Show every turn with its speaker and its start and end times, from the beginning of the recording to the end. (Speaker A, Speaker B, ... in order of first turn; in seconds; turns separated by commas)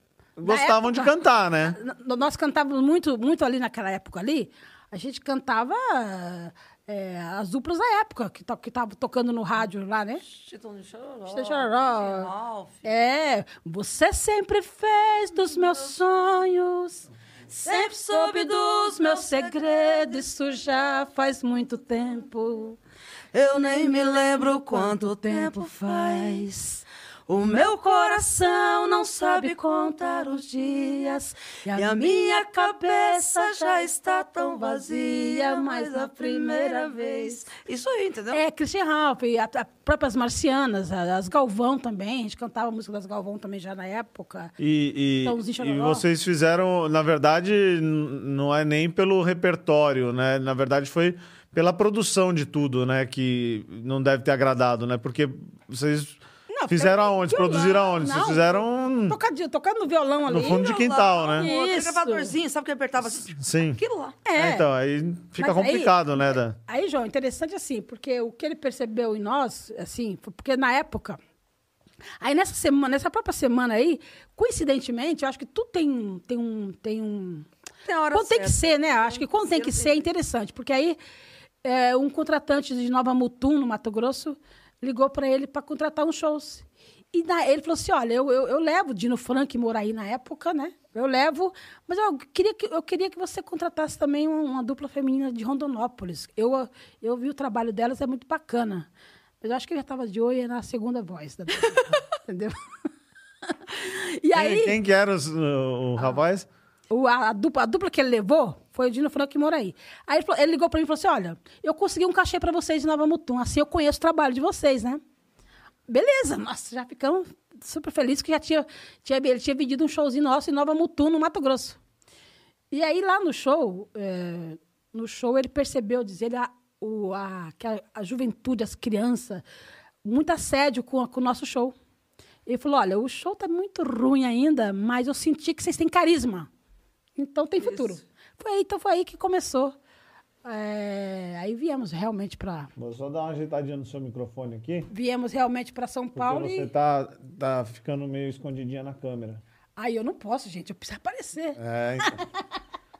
Speaker A: 0.4-1.8, Speaker B: 0.4-10.2, Speaker C: 10.2-12.9, Speaker B: 11.3-12.3, Speaker B: 12.8-17.1, Speaker C: 15.6-16.0, Speaker C: 17.5-20.6, Speaker B: 17.6-22.8, Speaker C: 23.3-38.4, Speaker B: 24.8-26.5, Speaker B: 31.5-32.3, Speaker B: 34.5-37.4, Speaker B: 38.3-44.5, Speaker A: 44.6-59.2, Speaker B: 45.2-46.0, Speaker B: 56.5-60.7, Speaker A: 60.2-61.5, Speaker C: 60.3-64.2, Speaker B: 61.4-62.3, Speaker A: 63.0-63.8, Speaker B: 64.2-64.7, Speaker A: 64.3-66.6, Speaker B: 65.4-71.2, Speaker B: 72.2-77.5, Speaker C: 77.8-80.0, Speaker B: 78.1-81.0, Speaker B: 81.6-98.9, Speaker B: 99.4-102.5, Speaker B: 103.5-104.8, Speaker A: 104.3-106.5, Speaker B: 106.9-115.0, Speaker B: 115.9-121.8, Speaker B: 122.7-129.4, Speaker B: 130.0-131.7, Speaker B: 132.4-136.5, Speaker B: 137.2-139.8, Speaker C: 137.6-138.0, Speaker B: 140.4-142.7, Speaker A: 142.8-144.9, Speaker B: 144.9-146.7, Speaker A: 146.2-149.4, Speaker B: 149.8-152.3, Speaker A: 151.6-152.2